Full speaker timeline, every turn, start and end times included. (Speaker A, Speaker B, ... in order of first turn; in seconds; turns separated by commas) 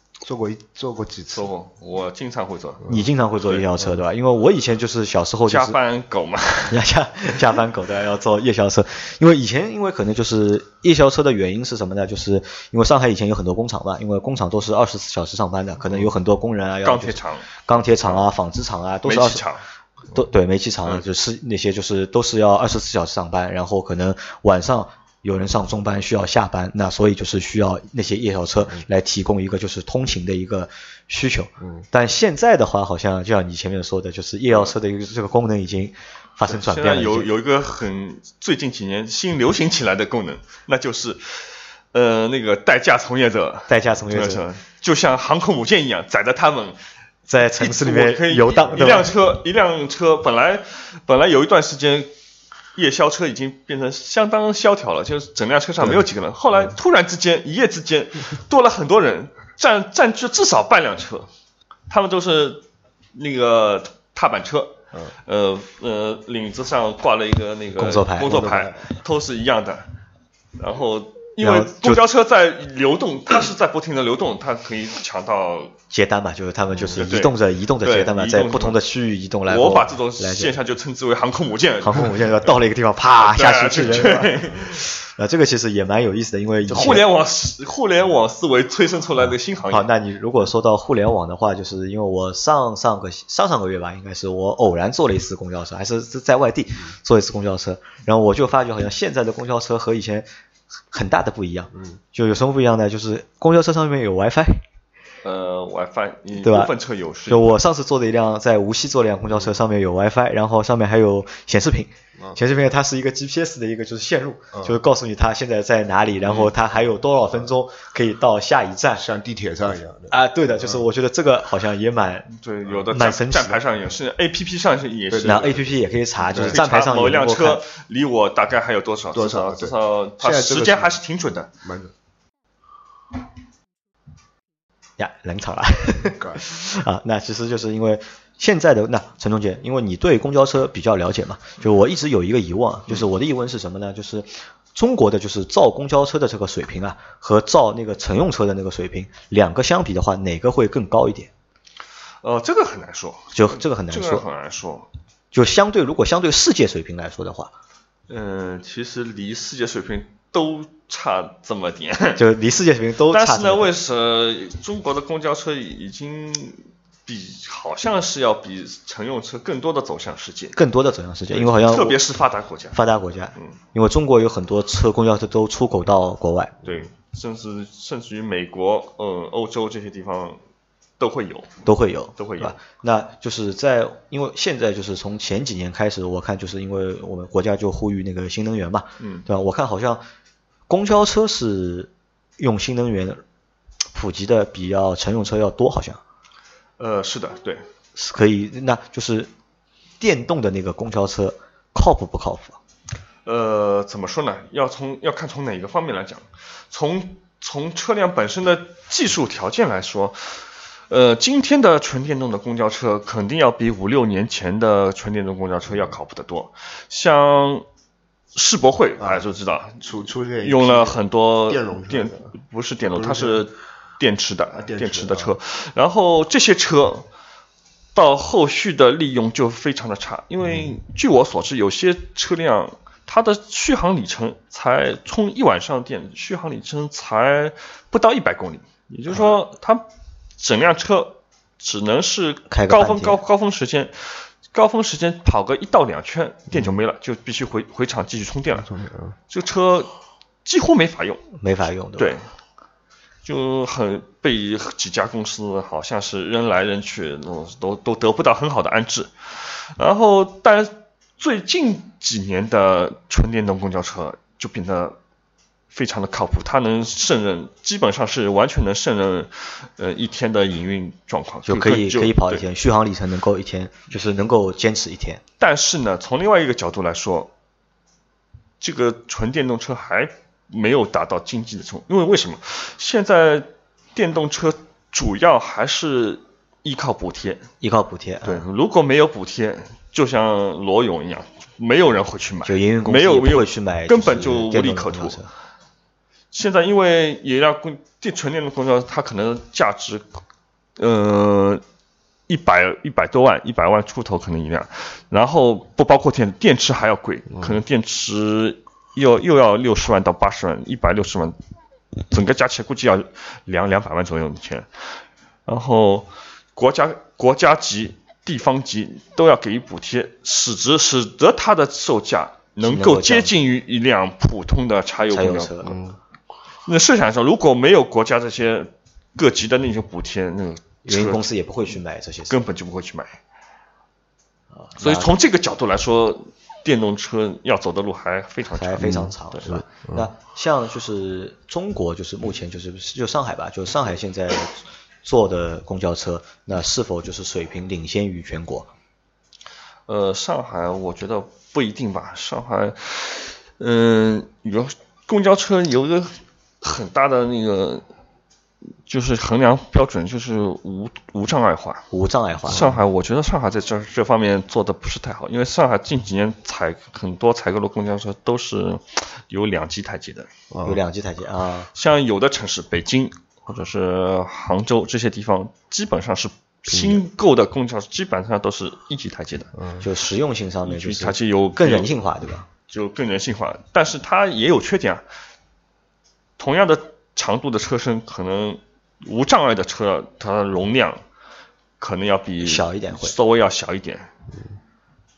Speaker A: 0.2-1.5, Speaker B: 1.3-2.9, Speaker C: 2.9-5.8, Speaker B: 3.4-3.7, Speaker B: 5.5-6.8, Speaker C: 6.7-19.4, Speaker B: 16.8-18.2, Speaker B: 19.0-19.6, Speaker C: 20.1-37.3, Speaker B: 36.5-46.8, Speaker C: 43.7-44.4, Speaker C: 47.3-49.1, Speaker B: 47.5-52.1, Speaker B: 52.8-61.3, Speaker B: 61.9-69.9, Speaker C: 67.8-68.6, Speaker A: 68.3-68.7, Speaker B: 70.6-75.7, Speaker C: 71.4-72.0, Speaker C: 75.9-80.5, Speaker B: 76.9-78.8, Speaker B: 79.5-82.5, Speaker C: 81.8-87.0, Speaker B: 83.1-84.8, Speaker B: 86.7-89.9, Speaker C: 89.7-100.3, Speaker C: 100.9-104.6, Speaker B: 105.2-107.6, Speaker C: 106.4-106.7, Speaker C: 107.3-119.0, Speaker B: 116.2-116.5, Speaker A: 119.0-120.2, Speaker C: 120.1-122.3, Speaker B: 122.3-125.6, Speaker C: 122.9-123.6, Speaker A: 125.1-125.5, Speaker C: 125.2-127.6, Speaker A: 126.3-126.6, Speaker B: 126.3-131.5, Speaker A: 129.1-131.0, Speaker A: 131.6-131.9, Speaker C: 135.0-151.3, Speaker A: 136.2-136.4, Speaker B: 152.2-154.9, Speaker C: 153.3-154.2, Speaker C: 155.3-157.5, Speaker B: 158.1-162.2, Speaker C: 162.2-163.7, Speaker B: 163.1-170.6, Speaker C: 170.6-172.0, Speaker B: 171.3-172.8, Speaker C: 172.7-176.6, Speaker B: 176.6-180.4, Speaker B: 181.0-181.5, Speaker C: 181.7-190.0, Speaker B: 182.2-182.6, Speaker B: 189.0-189.3, Speaker C: 190.7-193.2, Speaker C: 193.9-196.0, Speaker B: 196.8-197.6, Speaker C: 198.0-199.3, Speaker C: 200.0-202.6, Speaker B: 203.2-217.7, Speaker B: 218.3-227.1, Speaker A: 219.0-219.3, Speaker A: 219.8-222.3, Speaker A: 222.9-223.4, Speaker A: 224.6-225.3, Speaker B: 227.9-239.9, Speaker B: 240.4-248.7, Speaker C: 242.5-243.2, Speaker A: 248.6-249.2, Speaker B: 249.3-249.9, Speaker B: 250.4-251.2, Speaker C: 251.4-252.2, Speaker B: 252.0-252.2, Speaker B: 253.2-265.0, Speaker B: 265.7-272.4, Speaker C: 271.5-275.2, Speaker B: 275.4-277.3, Speaker B: 278.6-287.5, Speaker C: 287.6-288.4, Speaker B: 288.2-295.2, Speaker C: 292.5-295.3, Speaker B: 296.3-300.1, Speaker B: 300.8-301.6, Speaker B: 302.3-311.4, Speaker B: 312.0-314.9, Speaker B: 315.5-325.8, Speaker C: 322.6-323.3, Speaker C: 325.1-325.8, Speaker A: 325.7-325.9, Speaker B: 326.6-331.2, Speaker C: 330.9-332.4, Speaker B: 332.3-333.2, Speaker C: 334.6-335.1, Speaker B: 334.8-339.6, Speaker C: 338.6-348.7, Speaker A: 338.8-340.1, Speaker B: 349.9-357.8, Speaker B: 358.9-361.9, Speaker C: 361.9-362.7, Speaker B: 362.5-370.3, Speaker A: 362.5-362.8, Speaker A: 370.5-370.8, Speaker C: 370.6-371.7, Speaker B: 371.7-379.5, Speaker A: 376.7-377.0, Speaker C: 379.8-382.5, Speaker B: 380.6-381.9, Speaker B: 382.7-385.0, Speaker B: 386.4-391.0, Speaker B: 391.8-394.1, Speaker C: 392.4-393.2